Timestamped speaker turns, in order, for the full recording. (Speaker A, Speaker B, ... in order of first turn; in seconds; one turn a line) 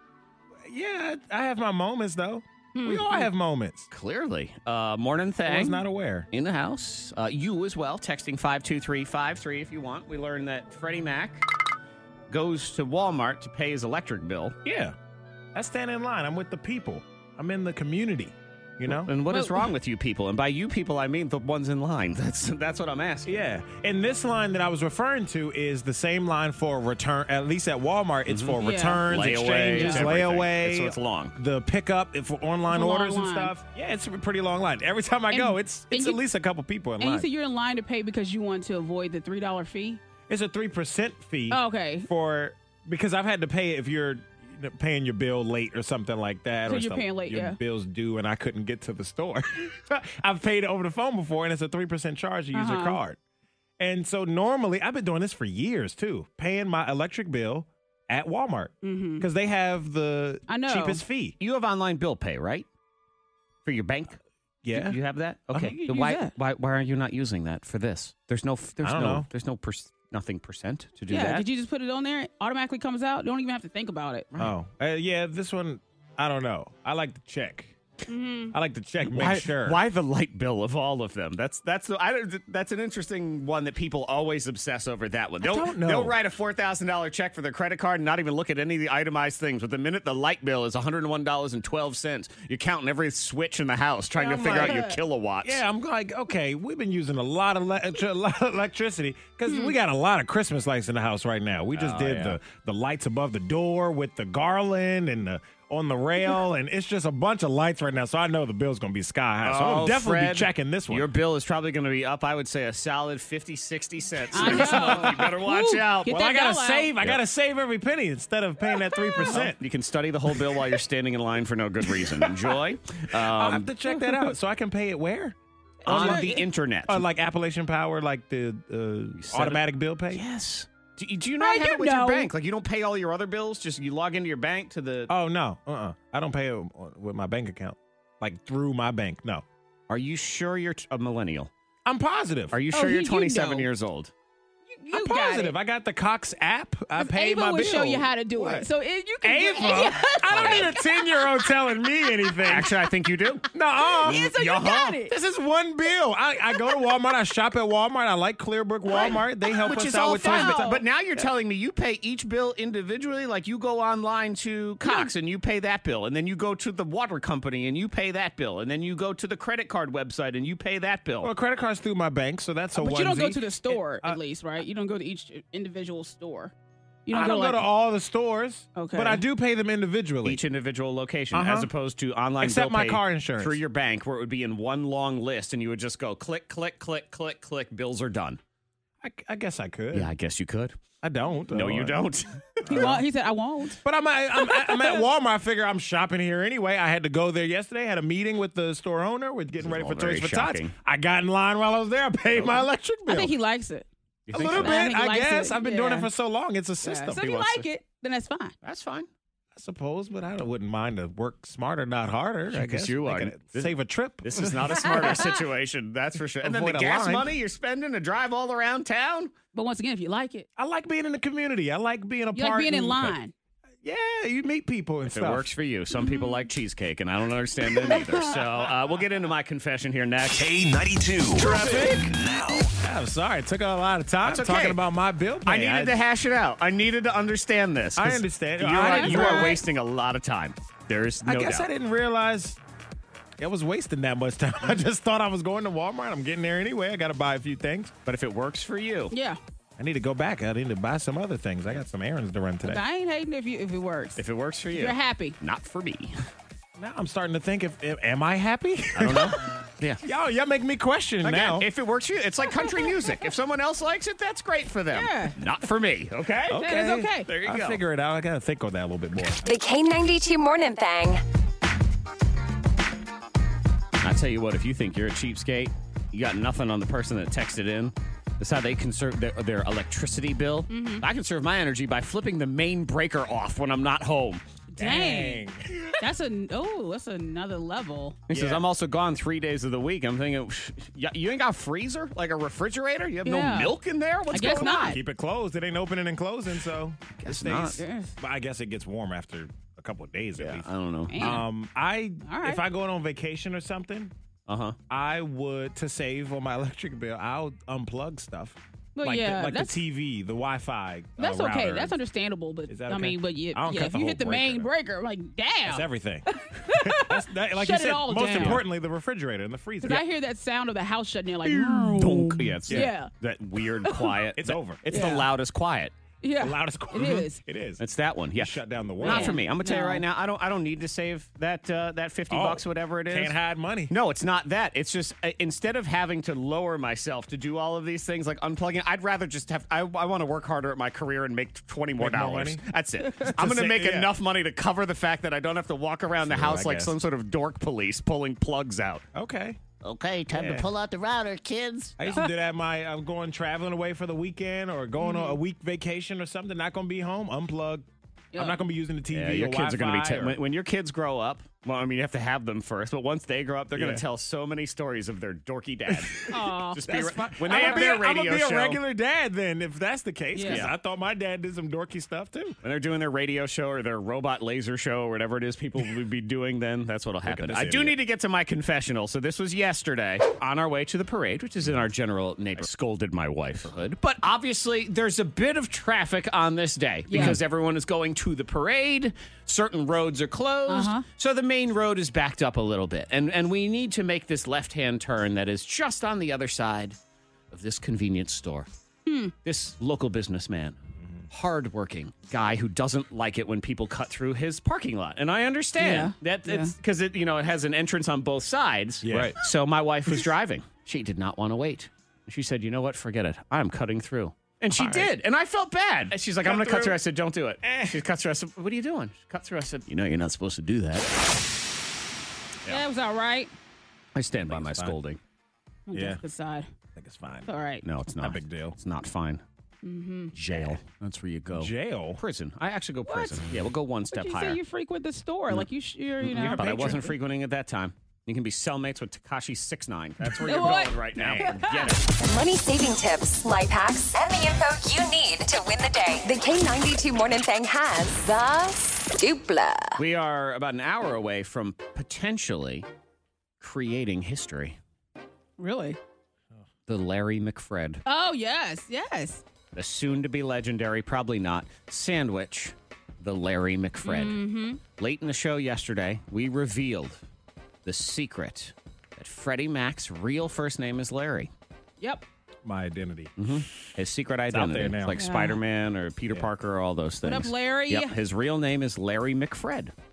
Speaker A: 0.6-3.9
Speaker B: 2.7-3.3
Speaker C: 3.9-11.4
Speaker A: 5.5-6.3
Speaker C: 12.3-14.6
Speaker A: 14.6-14.9
Speaker A: 15.5-19.1
Speaker C: 18.9-23.4
Speaker B: 19.3-19.7
Speaker A: 23.2-37.3
Speaker C: 28.3-31.3
Speaker B: 28.6-29.1
Speaker B: 29.7-30.1
Speaker B: 32.7-33.5
Speaker B: 35.3-36.2
Speaker B: 37.0-40.0
Speaker A: 40.3-53.2
Speaker B: 41.5-42.1
Speaker B: 46.7-47.6
Speaker B: 52.5-53.0
Speaker A: 53.8-61.4
Speaker B: 58.8-59.3
Speaker B: 60.5-61.0
Speaker C: 61.4-62.6
Speaker C: 63.6-71.5
Speaker A: 64.6-65.0
Speaker A: 65.5-65.8
Speaker B: 65.7-66.3
Speaker A: 68.8-69.3
Speaker B: 71.1-74.3
Speaker A: 74.4-77.7
Speaker B: 78.1-78.5
Speaker A: 78.5-79.8
Speaker C: 79.0-95.6
Speaker A: 85.4-86.2
Speaker B: 94.2-95.0
Speaker A: 94.3-94.9
Speaker A: 95.4-111.1
Speaker B: 99.5-99.8
Speaker C: 101.7-102.4
Speaker C: 109.4-116.1
Speaker B: 114.3-116.9
Speaker A: 114.3-115.3
Speaker A: 116.0-119.6
Speaker C: 119.2-123.7
Speaker A: 120.3-120.6
Speaker A: 121.9-122.6
Speaker A: 123.1-126.3
Speaker B: 123.8-124.3
Speaker B: 125.8-126.4
Speaker C: 125.9-127.0
Speaker A: 126.9-130.2
Speaker C: 129.2-135.1
Speaker B: 131.4-132.3
Speaker A: 135.1-139.4
Speaker C: 139.9-141.5
Speaker A: 141.8-142.6
Speaker C: 142.5-144.1
Speaker B: 142.7-143.7
Speaker B: 144.7-145.5
Speaker A: 144.9-148.7
Speaker B: 147.0-151.4
Speaker A: 149.2-152.7
Speaker C: 150.3-150.7
Speaker C: 152.5-153.5
Speaker A: 153.5-154.4
Speaker B: 153.8-155.1
Speaker C: 154.0-155.0
Speaker A: 155.0-161.2
Speaker B: 158.9-160.7
Speaker C: 159.6-171.3
Speaker B: 164.8-165.1
Speaker A: 171.2-174.2
Speaker B: 172.8-176.5
Speaker B: 177.1-177.6
Speaker A: 177.1-180.4
Speaker B: 178.8-179.2
Speaker C: 180.2-188.4
Speaker A: 181.3-181.7
Speaker A: 182.4-183.6
Speaker A: 189.0-190.1
Speaker C: 189.9-190.8
Speaker A: 191.0-192.0
Speaker C: 191.5-192.6
Speaker A: 192.6-193.0
Speaker B: 192.7-193.8
Speaker A: 193.8-203.3
Speaker B: 194.4-195.0
Speaker C: 199.6-200.7
Speaker C: 202.3-202.6
Speaker B: 203.1-206.1
Speaker C: 204.3-204.7
Speaker A: 204.3-207.3
Speaker B: 206.8-208.5
Speaker C: 207.2-207.6
Speaker C: 208.6-209.1
Speaker A: 209.5-215.2
Speaker C: 212.5-219.3
Speaker B: 214.8-215.3
Speaker A: 216.4-217.3
Speaker B: 219.5-220.5
Speaker A: 220.6-223.1
Speaker B: 222.3-223.3
Speaker A: 223.8-225.5
Speaker C: 225.1-230.4
Speaker B: 225.9-226.4
Speaker B: 227.9-228.3
Speaker A: 227.9-228.4
Speaker D: 230.3-232.7
Speaker C: 231.4-232.1
Speaker A: 231.4-232.1
Speaker A: 232.8-235.9
Speaker C: 234.2-234.8
Speaker C: 235.4-241.7
Speaker A: 237.9-239.6
Speaker B: 238.8-239.6
Speaker A: 241.2-242.6
Speaker A: 243.4-247.9
Speaker C: 248.1-249.1
Speaker B: 249.1-249.4
Speaker A: 249.8-252.8
Speaker B: 252.6-254.2
Speaker C: 254.2-256.1
Speaker B: 254.7-255.3
Speaker A: 256.8-261.7
Speaker C: 258.9-260.0
Speaker C: 261.2-266.6
Speaker B: 264.9-265.4
Speaker A: 266.5-269.4
Speaker B: 266.6-267.3
Speaker C: 267.2-267.8
Speaker E: 269.4-271.2
Speaker C: 274.0-284.4
Speaker B: 280.7-281.0
Speaker B: 284.7-285.4
Speaker A: 284.8-285.9
Speaker B: 286.0-288.2
Speaker C: 288.3-294.9
Speaker A: 288.3-288.6
Speaker B: 293.2-293.7
Speaker B: 294.3-295.0
Speaker A: 294.4-304.1
Speaker C: 297.2-297.8
Speaker B: 297.8-298.1
Speaker C: 300.4-301.4
Speaker B: 301.1-301.4
Speaker B: 302.2-302.6
Speaker C: 304.5-304.8
Speaker A: 304.9-311.9
Speaker B: 308.9-309.8
Speaker B: 311.2-318.6
Speaker A: 312.7-314.7
Speaker A: 315.6-320.1
Speaker B: 319.8-323.1
Speaker A: 321.4-322.9
Speaker C: 322.0-325.9
Speaker B: 323.9-324.1
Speaker A: 324.4-325.1
Speaker B: 324.9-325.3
Speaker B: 326.2-327.4
Speaker A: 326.4-327.8
Speaker C: 327.8-333.4
Speaker A: 328.3-329.4
Speaker B: 329.0-330.0
Speaker A: 332.3-333.9
Speaker C: 333.9-349.0
Speaker A: 342.0-342.6
Speaker A: 343.3-344.1
Speaker A: 346.2-346.9
Speaker A: 349.1-349.6
Speaker C: 349.8-352.0
Speaker A: 350.3-350.7
Speaker A: 352.0-360.4
Speaker B: 355.0-355.4
Speaker B: 358.3-358.6
Speaker C: 359.1-368.8
Speaker A: 363.7-364.0
Speaker A: 365.9-372.6
Speaker B: 366.3-366.8
Speaker B: 367.4-368.0
Speaker B: 370.3-370.7
Speaker C: 370.4-370.7
Speaker C: 372.6-397.0
Speaker A: 377.2-378.0
Speaker B: 387.1-387.4
Speaker B: 390.7-391.0
Speaker C: 397.5-398.7
Speaker B: 399.1-399.3
Speaker C: 399.4-400.8
Speaker C: 401.3-421.1
Speaker B: 405.8-406.7
Speaker A: 409.0-409.4
Speaker A: 414.7-415.1
Speaker A: 416.4-417.0
Speaker A: 417.6-418.0
Speaker B: 422.7-423.5
Speaker C: 424.1-425.2
Speaker A: 424.5-425.0
Speaker B: 425.9-426.7
Speaker A: 425.9-426.2
Speaker A: 426.9-427.5
Speaker B: 427.5-427.8
Speaker C: 427.8-429.4
Speaker A: 428.2-428.8
Speaker B: 429.8-430.3
Speaker C: 430.3-434.6
Speaker A: 431.5-432.2
Speaker B: 433.1-433.4
Speaker B: 434.1-437.1
Speaker C: 436.2-442.1
Speaker A: 436.4-437.0
Speaker B: 440.4-441.9
Speaker A: 441.1-441.5
Speaker E: 442.2-450.0
Speaker C: 450.0-452.9
Speaker C: 453.6-454.8
Speaker B: 455.6-456.0
Speaker C: 456.9-458.0
Speaker B: 458.1-459.4
Speaker C: 459.7-464.4
Speaker B: 464.0-464.8
Speaker C: 465.0-467.2
Speaker C: 467.8-471.5
Speaker A: 472.6-473.3
Speaker C: 473.4-479.9
Speaker A: 474.5-475.2
Speaker B: 475.1-475.6
Speaker B: 477.2-478.1